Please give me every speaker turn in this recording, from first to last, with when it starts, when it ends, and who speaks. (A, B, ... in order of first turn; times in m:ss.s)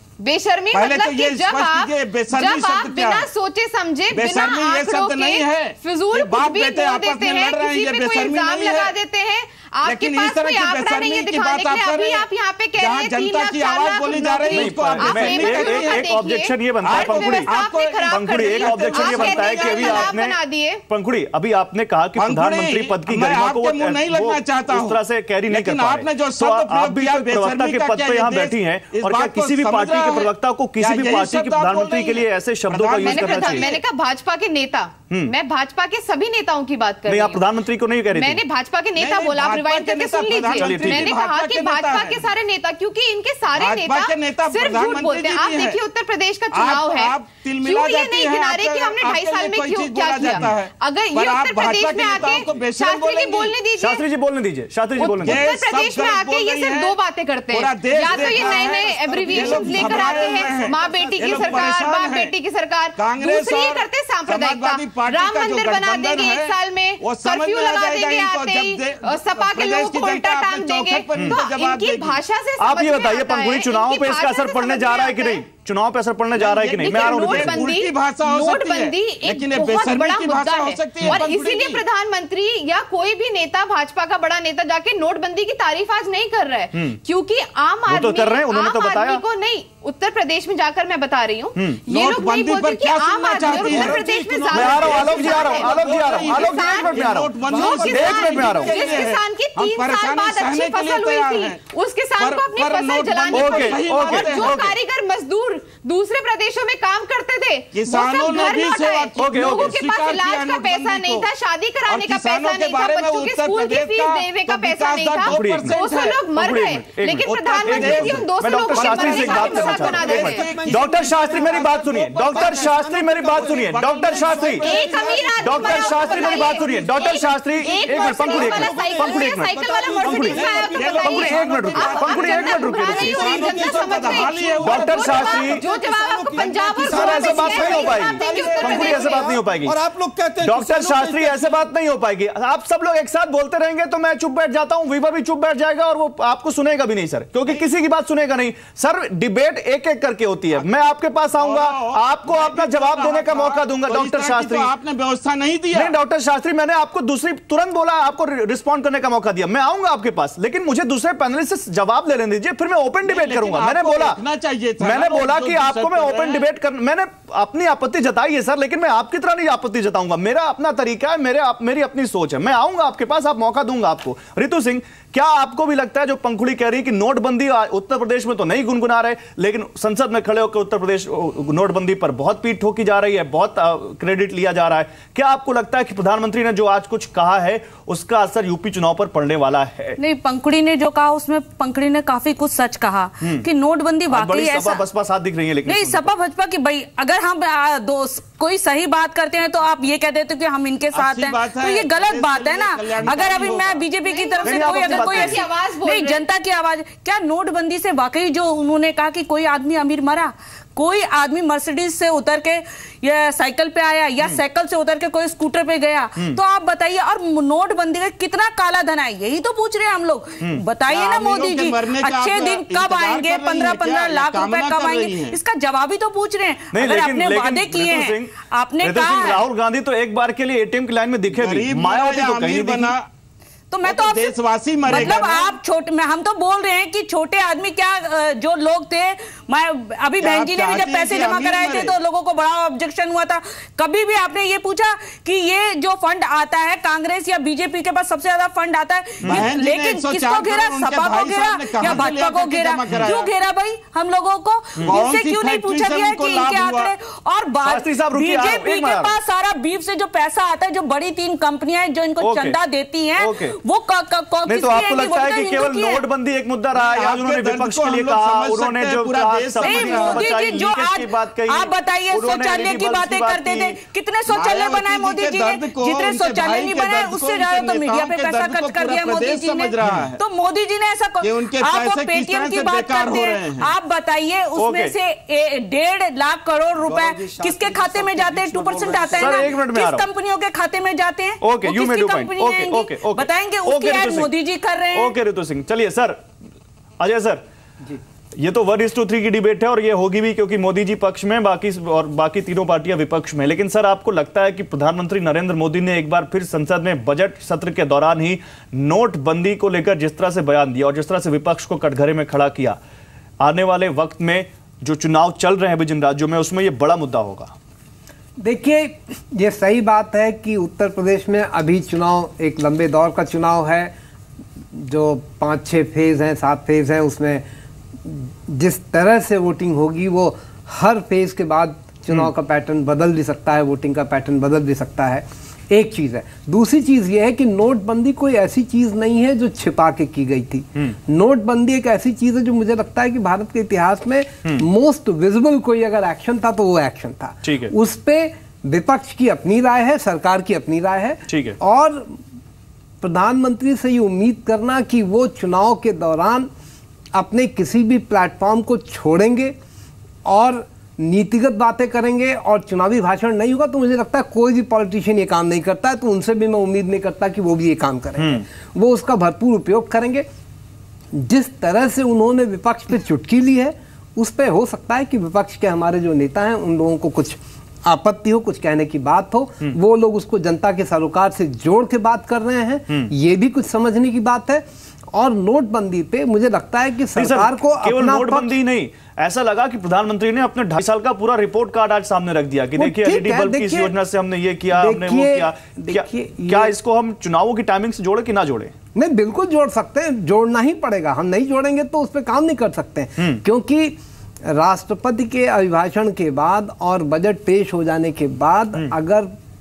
0:00.2-0:20.8 A
0:00.7-0:03.2 B
0:04.1-0:08.9 B
0:09.8-0:12.3 B
0:12.8-0:16.1 B
0:14.5-0:17.5 C
0:16.8-0:20.1 B
0:18.0-0:33.8 C
0:22.2-0:33.8 B
0:33.0-0:37.4 A
0:37.1-0:38.4 C
0:38.1-0:54.0 A
0:39.0-0:42.2 B
0:40.6-0:41.1 C
0:43.6-0:45.8 B
0:46.5-0:53.5 B
0:50.2-0:50.5 C
0:53.8-0:55.4 C
0:55.0-1:15.4 A
0:55.0-0:56.9 B
0:57.5-1:02.3 B
0:58.0-1:01.6 D
1:03.0-1:12.2 B
1:12.6-1:17.6 C
1:16.3-1:21.8 B
1:16.8-2:00.5 A
1:27.9-1:29.2 C
1:31.6-1:31.8 C
1:31.9-1:34.0 B
1:33.5-1:36.0 D
1:34.5-1:38.7 C
1:34.6-1:41.6 B
1:37.4-1:38.3 D
1:42.2-1:44.7 B
1:43.3-1:44.7 C
1:47.7-1:51.3 B
1:49.2-1:49.7 C
1:51.9-1:56.2 B
1:55.2-2:04.6 C
1:57.2-2:02.8 B
1:59.9-2:06.9 D
2:03.3-2:06.8 B
2:04.6-2:19.4 A
2:05.4-2:09.5 C
2:07.6-2:11.5 D
2:10.0-2:13.2 C
2:10.7-2:15.5 B
2:12.9-2:21.6 D
2:14.6-2:15.6 C
2:16.8-2:19.8 C
2:17.5-2:19.0 B
2:20.4-2:34.7 C
2:30.5-2:35.9 B
2:35.7-2:44.2 C
2:43.0-2:46.4 B
2:44.8-3:10.0 C
3:10.0-3:14.8 E
3:13.2-3:13.5 C
3:14.1-3:16.1 C
3:15.6-3:49.4 E
3:20.9-3:23.8 B
3:24.1-3:26.2 A
3:24.4-3:25.4 C
3:40.9-3:45.4 B
3:46.7-3:52.9 C
3:51.3-3:53.0 B
3:53.7-4:26.0 E
3:53.8-3:55.6 B
4:00.2-4:01.9 B
4:09.2-4:13.3 B
4:14.8-4:16.9 B
4:17.6-4:19.1 C
4:22.2-4:22.6 C
4:23.2-4:23.5 C
4:24.5-4:33.8 C
4:26.7-4:30.3 B
4:29.6-4:55.1 E
4:34.3-4:40.2 B
4:41.2-4:43.7 B
4:44.6-4:44.9 C
4:46.8-4:49.5 D
4:49.1-4:50.0 C
4:51.4-4:54.3 C
4:54.9-4:56.2 C
4:57.0-4:57.4 C
4:58.4-5:12.8 C
5:13.4-5:17.5 C
5:18.4-5:23.9 F
5:24.7-5:27.4 F
5:28.0-5:52.2 F
5:47.4-5:47.7 C
5:51.3-5:51.6 C
5:53.0-5:56.5 F
5:57.1-5:59.5 F
6:00.2-6:10.2 F
6:08.2-6:08.4 C
6:11.1-6:28.5 F
6:27.2-6:38.7 C
6:32.8-6:33.9 F
6:34.7-6:36.7 F
6:38.9-6:44.0 F
6:44.5-6:49.3 F